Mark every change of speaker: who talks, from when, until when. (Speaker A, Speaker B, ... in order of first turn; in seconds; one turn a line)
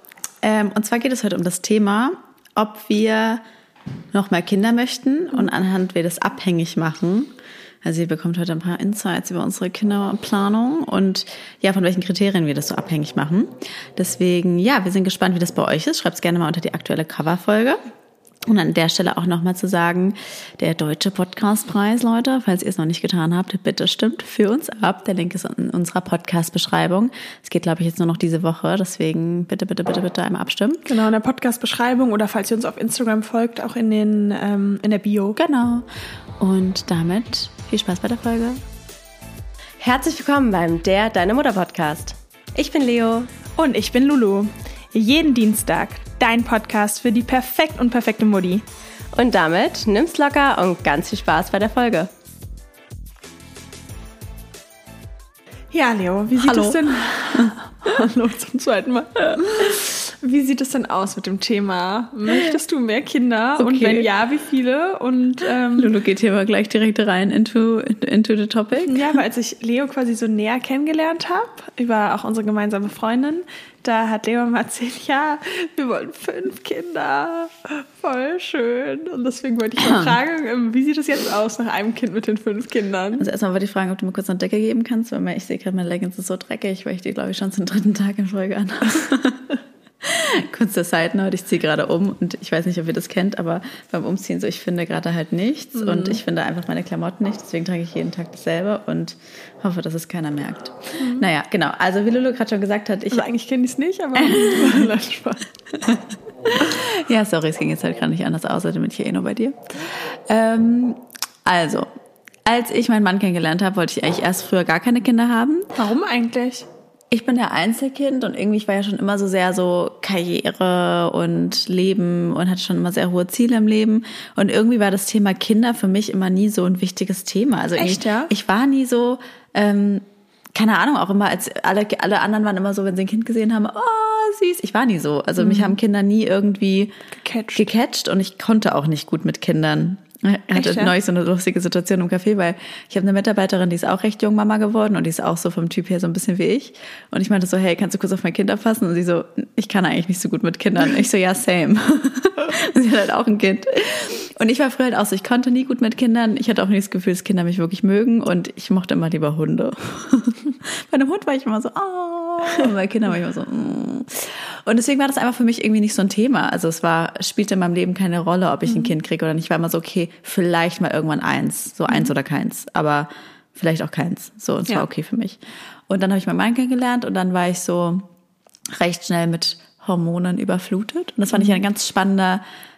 Speaker A: 0.4-3.4
Speaker A: 4.1-7.3
Speaker A: 7.8-17.8
Speaker A: 18.5-30.9
Speaker B: 30.9-35.4
Speaker A: 35.4-38.6
Speaker C: 39.8-43.3
Speaker B: 43.6-48.6
Speaker C: 49.1-52.1
Speaker B: 55.7-65.9
Speaker A: 56.4-56.8
Speaker A: 57.3-57.6
Speaker A: 63.6-64.1
Speaker A: 65.8-69.1
Speaker B: 68.8-83.3
Speaker A: 79.8-80.2
Speaker A: 83.2-89.5
Speaker A: 90.0-103.3
Speaker B: 95.8-96.2
Speaker B: 101.0-101.3
Speaker B: 103.1-105.4
Speaker A: 104.2-104.9
Speaker A: 105.9-111.9
Speaker A: 112.5-115.7
Speaker B: 115.8-116.7
Speaker A: 117.1-137.0
Speaker B: 127.8-128.3
Speaker B: 135.4-135.8
Speaker B: 137.1-137.7
Speaker A: 137.6-178.1
Speaker B: 140.5-140.9
Speaker A: 178.7-182.4